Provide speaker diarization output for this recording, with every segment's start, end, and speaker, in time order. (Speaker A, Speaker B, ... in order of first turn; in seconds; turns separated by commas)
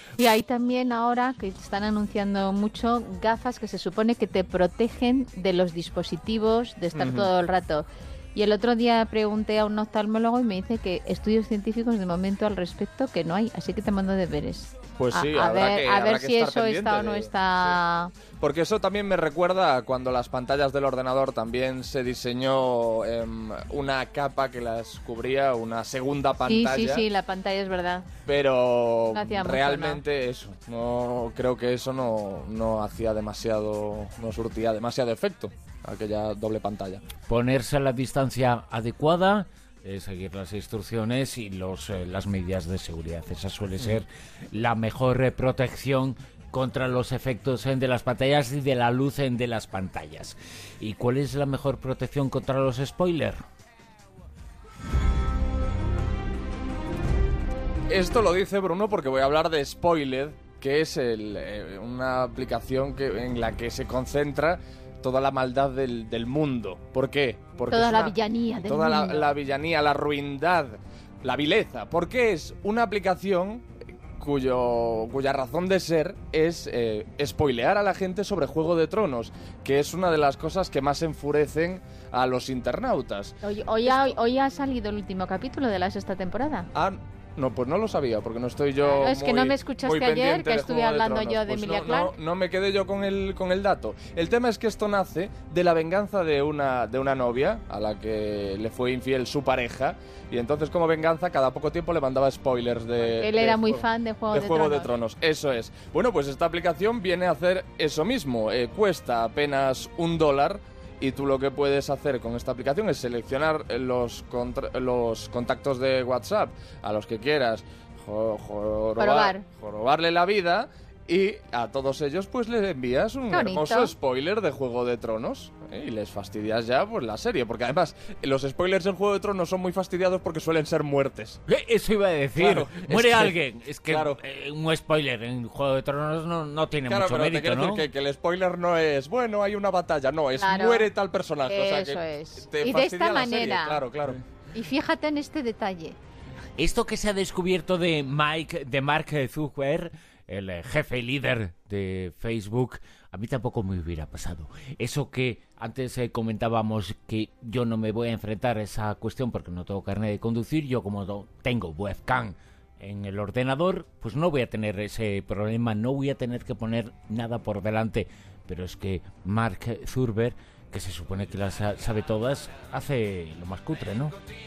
Speaker A: 0.2-18.1, Speaker B: 7.0-7.3, Speaker B: 15.0-17.8, Speaker B: 18.4-27.0, Speaker A: 26.4-28.1, Speaker B: 28.3-37.0, Speaker A: 29.1-30.0, Speaker C: 37.3-53.4, Speaker B: 57.9-73.7, Speaker A: 67.7-69.3, Speaker B: 74.2-84.2, Speaker A: 83.4-86.7, Speaker B: 86.7-131.4, Speaker A: 88.8-92.1, Speaker A: 103.0-104.9, Speaker A: 119.0-119.5, Speaker A: 123.3-123.9, Speaker C: 131.5-137.9, Speaker B: 132.4-134.2, Speaker B: 136.9-144.2, Speaker A: 140.4-140.9, Speaker A: 141.5-143.9, Speaker A: 144.5-146.0, Speaker C: 146.6-174.2